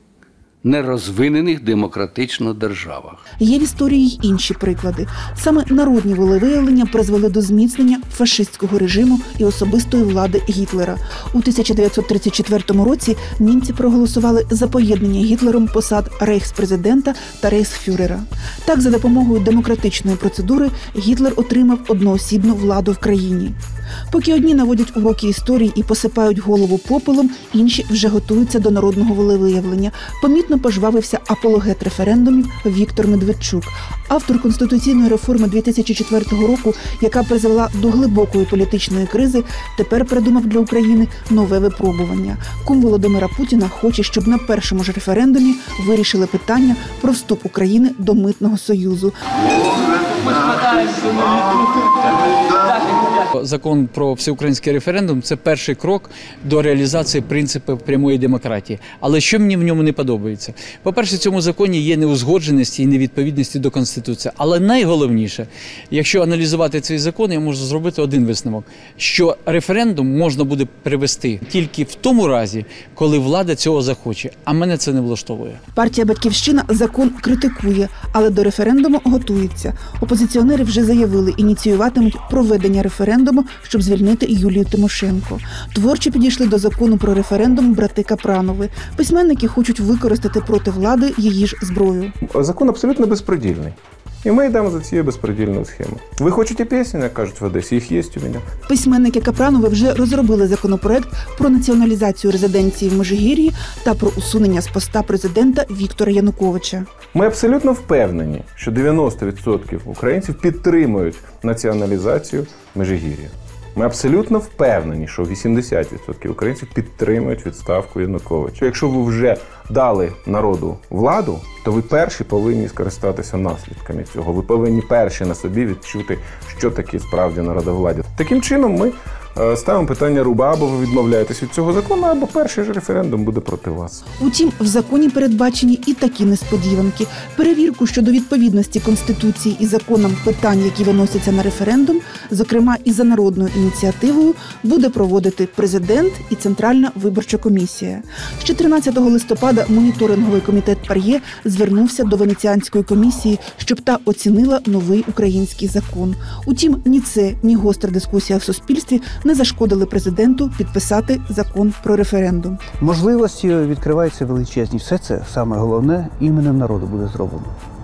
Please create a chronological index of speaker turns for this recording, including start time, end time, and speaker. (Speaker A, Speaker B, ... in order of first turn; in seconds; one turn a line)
Speaker A: 0.6-3.2
Speaker B: 3.4-23.5
Speaker B: 24.1-49.1
Speaker C: 53.3-75.6
Speaker B: 75.8-92.1
Speaker D: 92.2-98.5
Speaker B: 98.7-106.9
Speaker D: 107.1-134.0
Speaker B: 134.2-162.6
Speaker E: 162.8-167.5